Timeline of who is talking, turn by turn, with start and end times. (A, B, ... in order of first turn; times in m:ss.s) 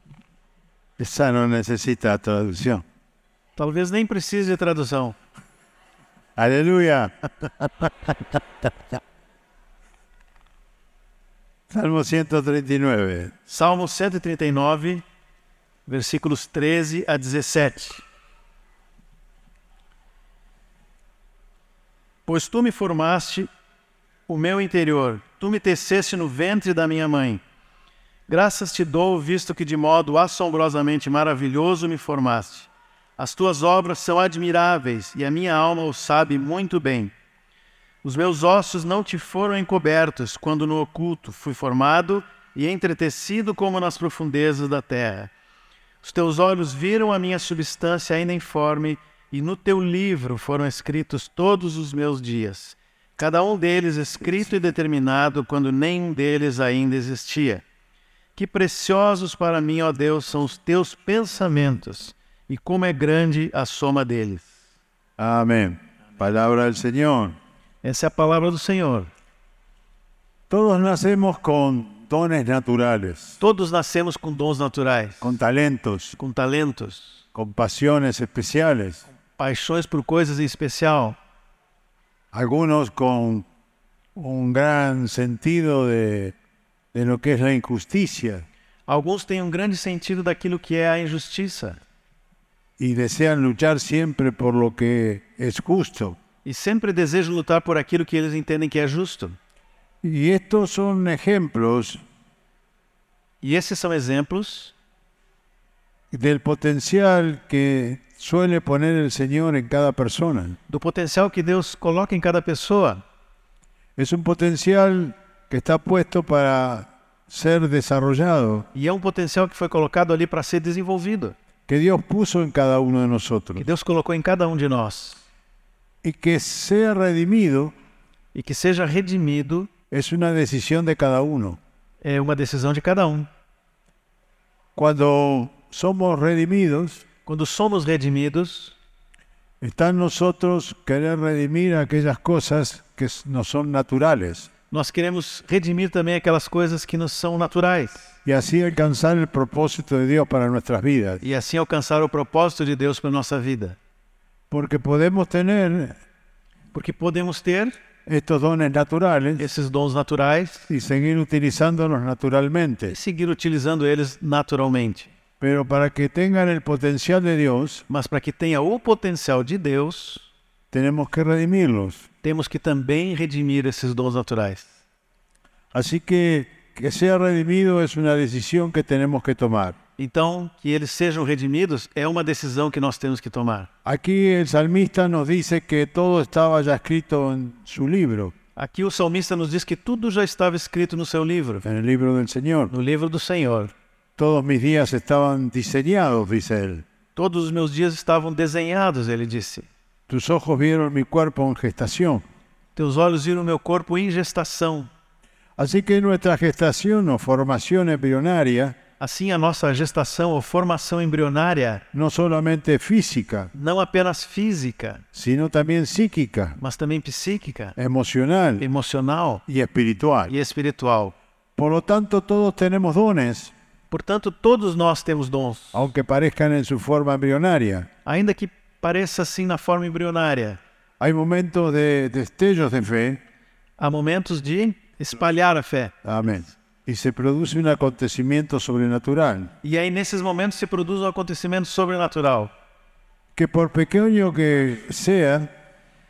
0:01.0-0:02.8 A
0:03.6-0:05.2 B
0:06.4-0:08.7 A
0:11.7-0:13.3 A
0:13.5-0:15.0 B
0:15.9-0:18.0 B
0:22.3-0:23.5 B
0:24.3-0:27.4 B
0:28.3-0:37.1 B
0:38.0-0:45.3 B
0:46.0-0:57.6 B
0:58.4-1:04.5 B
1:05.2-1:07.4 A
1:07.8-1:09.1 B
1:10.5-1:13.4 A
1:13.4-1:15.3 B
1:15.2-1:16.2 A
1:16.2-1:17.2 B
1:17.4-1:19.0 A
1:19.4-1:21.2 B
1:22.3-1:23.5 A
1:24.2-1:26.4 A
1:26.9-1:28.5 A
1:28.9-1:31.8 B
1:32.8-1:36.2 A
1:36.4-1:39.4 B
1:40.0-1:42.0 A
1:43.4-1:44.7 B
1:46.1-1:50.6 A
1:50.7-1:53.0 B
1:54.0-1:58.7 A
1:58.7-2:01.4 B
2:01.7-2:03.7 A
2:03.6-2:05.2 B
2:06.0-2:07.7 A
2:08.3-2:09.7 B
2:09.9-2:11.6 A
2:12.0-2:13.3 B
2:14.8-2:17.0 A
2:17.3-2:18.8 B
2:19.6-2:24.5 A
2:24.7-2:28.1 B
2:28.2-2:31.2 A
2:31.2-2:33.8 B
2:34.5-2:36.0 A
2:36.7-2:37.8 B
2:38.1-2:39.5 A
2:39.4-2:40.7 B
2:40.7-2:43.0 A
2:42.9-2:45.1 B
2:45.4-2:47.8 A
2:47.9-2:50.3 B
2:50.7-2:52.1 A
2:52.2-2:54.7 B
2:55.7-2:59.8 A
3:00.0-3:03.7 B
3:03.8-3:08.3 A
3:08.6-3:11.6 B
3:11.6-3:12.7 A
3:12.7-3:13.7 B
3:14.2-3:16.8 A
3:17.2-3:19.7 B
3:20.1-3:22.2 A
3:22.8-3:24.9 B
3:25.6-3:28.8 A
3:29.0-3:31.8 B
3:31.9-3:33.5 A
3:33.5-3:35.0 B
3:35.1-3:36.6 A
3:36.6-3:37.8 B
3:37.8-3:38.6 A
3:38.6-3:39.4 B
3:39.5-3:40.3 A
3:40.3-3:41.2 B
3:41.6-3:43.5 A
3:43.9-3:45.9 B
3:45.7-3:47.9 A
3:48.0-3:50.6 B
3:51.0-3:53.2 A
3:53.8-3:55.9 B
3:56.0-3:59.5 A
3:59.6-4:02.5 B
4:03.4-4:05.5 A